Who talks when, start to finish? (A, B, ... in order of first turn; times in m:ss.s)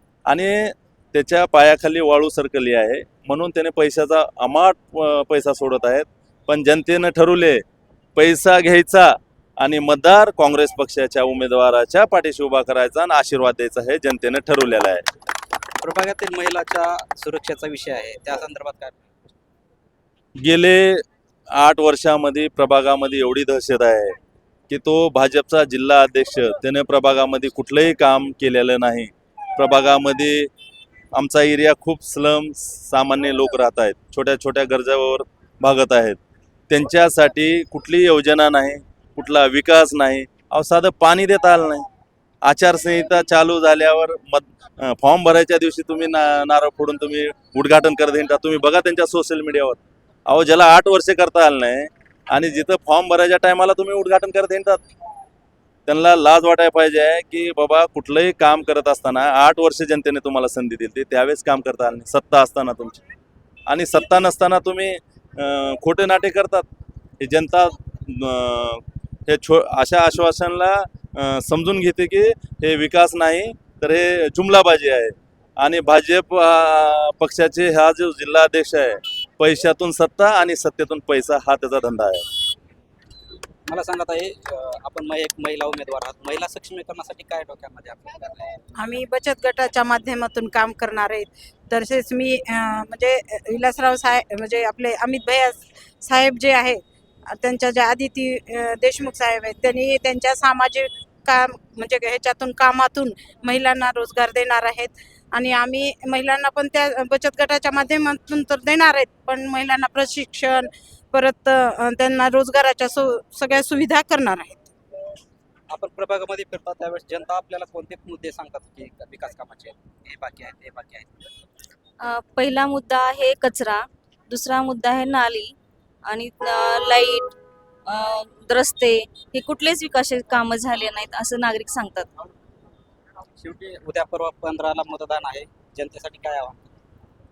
0:00.3-0:07.6 A
0:08.2-0:15.1 A
0:15.8-0:19.3 B
0:20.4-0:24.2 A
0:24.7-0:30.5 A
0:31.1-0:36.2 A
0:36.7-0:41.9 A
0:42.4-0:54.8 A
0:55.9-1:03.0 A
1:03.7-1:06.6 A
1:07.2-1:22.2 A
1:23.7-1:28.6 B
1:28.8-1:54.7 C
1:55.7-2:01.1 B
2:02.0-2:05.6 D
2:06.1-2:07.4 D
2:07.9-2:12.1 D
2:13.4-2:16.8 B